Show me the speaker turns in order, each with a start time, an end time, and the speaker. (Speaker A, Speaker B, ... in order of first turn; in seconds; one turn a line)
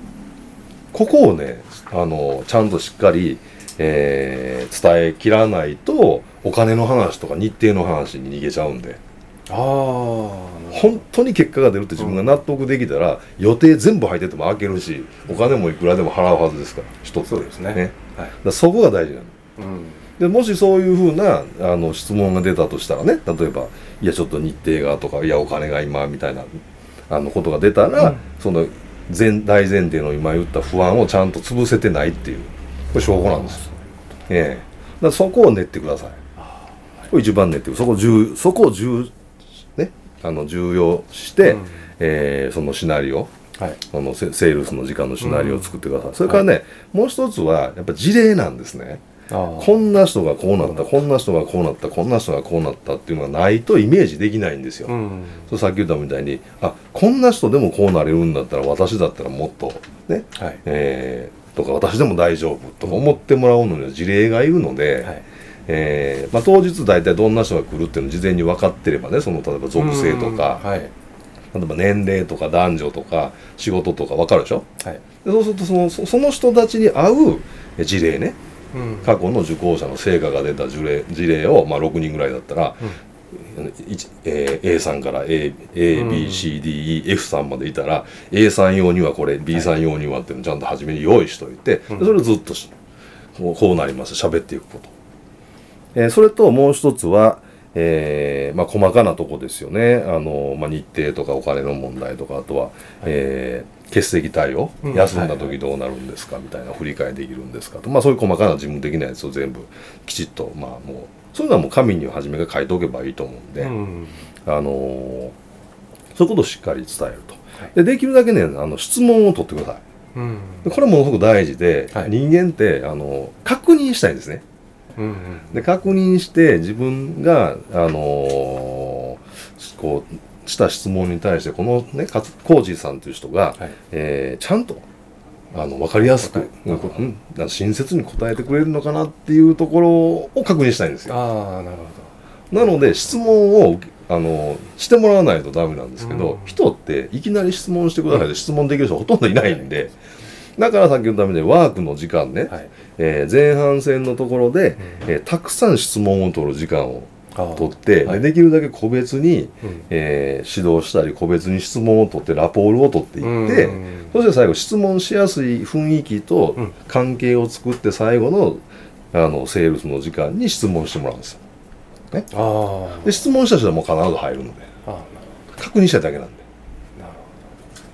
Speaker A: 0.9-9.0
Speaker B: 9.5-11.0
Speaker A: 10.7-19.4
Speaker B: 12.0-12.3
Speaker B: 17.2-18.3
Speaker B: 19.6-20.0
Speaker A: 20.2-33.6
Speaker B: 33.0-33.8
Speaker A: 34.3-36.2
Speaker B: 36.4-37.1
Speaker A: 37.1-39.1
Speaker A: 39.8-43.3
Speaker B: 41.4-41.7
Speaker A: 43.9-49.0
Speaker B: 45.2-46.5
Speaker B: 49.3-49.8
Speaker A: 49.6-55.0
Speaker B: 54.9-55.5
Speaker A: 55.5-70.7
Speaker B: 69.8-70.9
Speaker A: 71.5-74.7
Speaker A: 75.2-78.4
Speaker B: 78.7-79.2
Speaker A: 79.0-92.7
Speaker B: 85.9-86.5
Speaker B: 91.9-92.2
Speaker A: 93.4-94.9
Speaker A: 96.0-113.7
Speaker B: 104.8-105.5
Speaker B: 113.6-114.2
Speaker A: 114.5-115.3
Speaker A: 116.2-119.8
Speaker B: 120.2-120.7
Speaker A: 120.6-124.4
Speaker B: 125.0-125.6
Speaker A: 125.5-134.8
Speaker A: 135.5-141.2
Speaker B: 136.3-137.0
Speaker B: 141.1-142.1
Speaker A: 142.5-149.9
Speaker B: 146.0-146.6
Speaker A: 150.6-171.4
Speaker B: 157.3-158.2
Speaker B: 163.2-164.1
Speaker B: 172.3-173.2
Speaker A: 173.0-174.7
Speaker B: 174.9-175.3
Speaker A: 175.6-176.4
Speaker B: 177.0-177.3